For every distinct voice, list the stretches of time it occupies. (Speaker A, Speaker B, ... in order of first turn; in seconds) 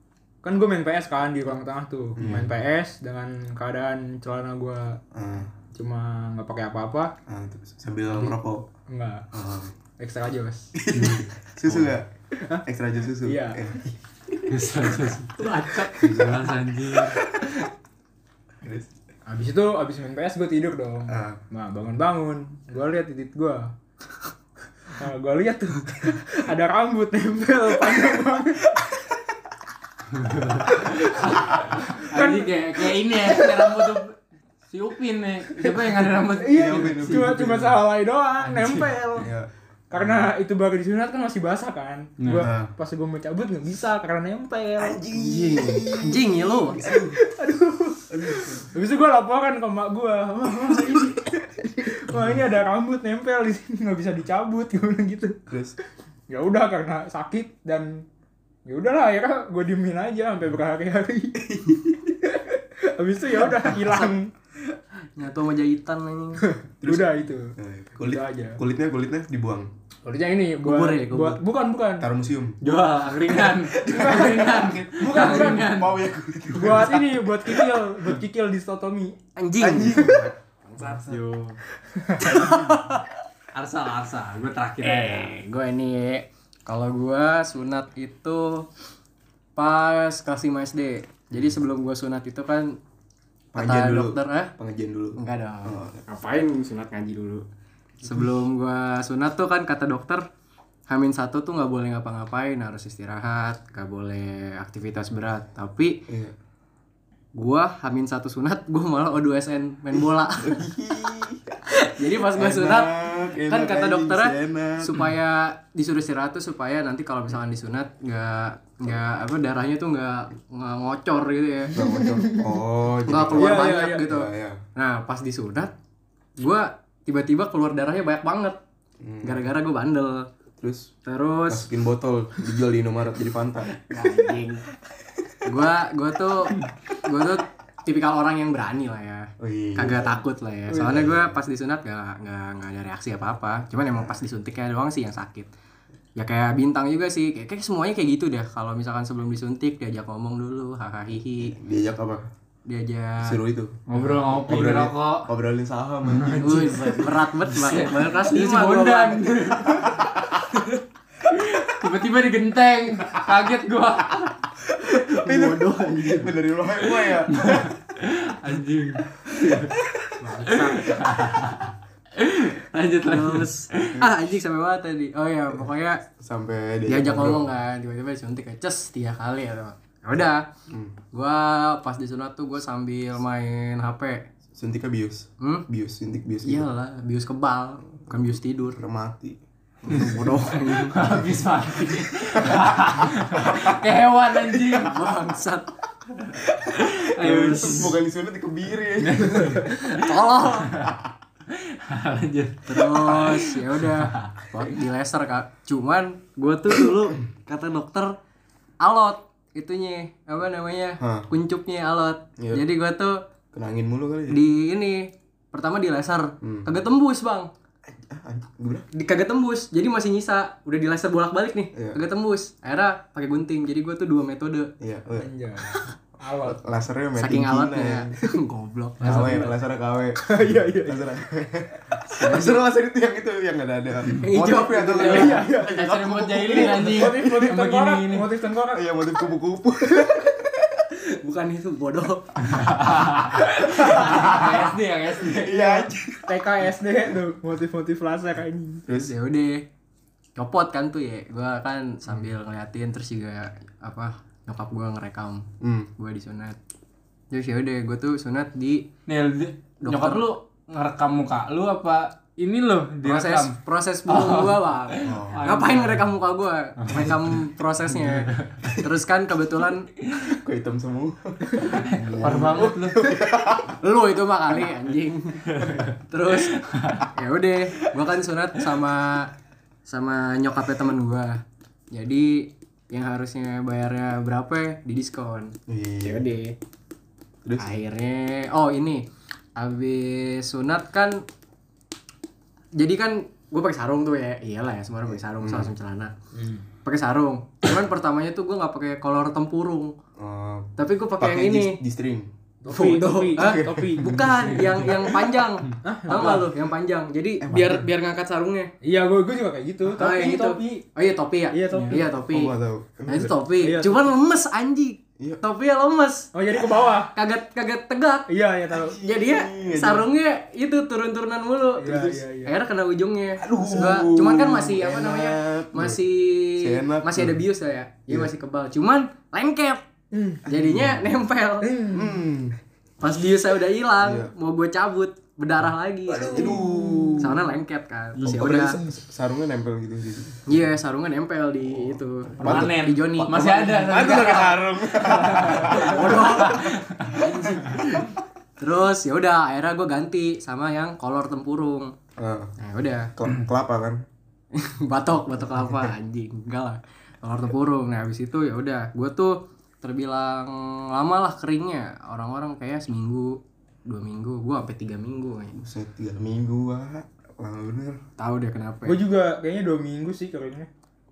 Speaker A: 0.4-5.0, 5.7-7.1, 8.9-9.2, 10.0-10.8, 13.2-13.8, 19.3-23.7, 25.0-28.8, 30.7-31.1, 32.1-32.5, 33.2-33.9, 36.4-39.3, 39.9-45.1, 46.9-55.4, 56.3-58.0, 58.7-61.7, 62.3-64.3, 66.5-68.6, 70.0-72.1, 75.0-75.7, 76.5-79.2, 82.0-82.4, 121.8-122.5, 123.3-124.1, 225.1-226.6, 229.0-229.3, 230.2-231.1, 234.9-235.8, 236.5-238.9, 246.3-248.8, 296.4-296.6, 302.6-304.2, 305.8-306.5, 308.8-310.9, 311.5-312.1, 313.6-314.1, 316.3-317.1, 318.3-319.0, 321.8-322.5, 330.1-330.4, 331.6-332.2, 336.1-337.3, 368.9-370.7
Speaker B: 2.2-2.5, 5.1-5.5, 7.3-8.7, 9.3-9.7, 10.8-12.1, 12.6-14.6, 15.9-16.5, 17.0-17.6, 18.6-18.9, 21.1-21.4, 36.5-37.7, 39.2-40.2, 42.4-42.7, 44.8-47.2, 48.1-48.6, 55.5-55.8, 61.4-61.8, 66.8-69.7, 72.0-72.6, 73.8-77.2, 79.6-80.3, 82.4-82.7, 93.5-96.0, 106.1-106.3, 109.9-115.1, 121.7-124.6, 129.0-129.4, 130.6-130.9, 131.5-134.1, 139.4-141.4, 151.4-152.3, 153.2-157.1, 159.8-160.2, 164.6-167.8, 169.3-170.5, 176.2-177.5, 180.7-180.9, 184.5-186.7, 188.1-189.4, 197.2-199.6, 211.0-211.3, 213.5-214.4, 216.4-216.7, 217.9-218.9, 221.7-222.0, 224.8-225.3, 226.4-228.1, 229.0-237.1, 238.7-240.9, 244.0-244.5, 245.3-246.4, 248.9-249.1, 255.6-255.9, 265.0-265.5, 270.2-273.8, 285.7-286.3, 287.4-287.7, 295.1-295.7, 300.2-302.3, 303.4-305.3, 306.1-306.4, 307.4-307.9, 312.2-313.4, 318.7-320.1, 323.4-326.0, 326.6-327.4, 328.1-328.3, 330.4-331.1, 331.9-332.6, 334.0-334.3, 336.2-337.4, 338.2-340.7, 341.7-342.9, 343.4-346.6, 347.3-348.1, 352.2-352.6, 353.1-354.0, 355.4-355.9, 365.6-368.0
Speaker C: 2.2-2.5, 14.5-17.4, 30.1-34.2, 34.7-37.6, 38.4-38.9, 42.2-42.5, 72.6-75.9, 80.8-81.6, 83.5-85.3, 153.9-155.3, 156.0-160.1, 161.3-164.3, 166.8-169.7, 170.4-174.0, 189.9-195.2, 196.3-198.0, 199.0-200.0, 201.5-204.3, 235.6-238.3, 242.4-245.9, 259.1-266.1, 266.8-267.4, 268.1-268.6, 271.6-273.0, 275.5-277.1, 304.4-304.7, 342.4-347.8
Speaker D: 15.4-16.1, 45.1-47.0, 63.7-64.2, 65.1-66.4, 70.6-71.4, 73.9-75.9, 79.4-81.2, 82.2-83.0, 84.8-88.7, 89.6-92.8, 93.6-94.5, 95.2-97.4, 98.0-100.2, 100.9-106.1, 107.3-111.0, 111.7-121.8, 123.1-125.7, 126.4-128.6, 129.2-130.3, 131.1-131.7, 133.8-134.7, 135.4-145.5, 146.2-151.6, 152.6-153.4, 156.3-159.2, 165.1-166.4, 170.4-170.8, 173.1-176.0, 176.9-180.4, 181.1-184.3, 186.4-188.8, 189.8-191.3, 194.7-195.7, 199.3-200.8, 202.7-208.2, 208.8-213.2, 214.3-217.5, 218.9-224.7, 227.2-229.6, 232.1-232.6, 234.1-235.4, 241.1-242.5, 249.0-249.7, 250.4-256.6, 257.3-258.9, 259.8-260.3, 263.0-269.9, 272.0-272.7, 273.8-279.3, 279.9-286.6, 287.6-289.1, 289.6-291.2, 292.7-296.1, 296.8-299.9, 300.8-301.8, 302.7-308.7, 309.9-312.5, 313.1-316.3, 317.1-318.3, 319.0-329.9, 330.5-331.7, 333.0-336.6, 337.2-338.8, 340.5-351.9, 352.6-353.1, 354.5-365.6, 368.2-369.0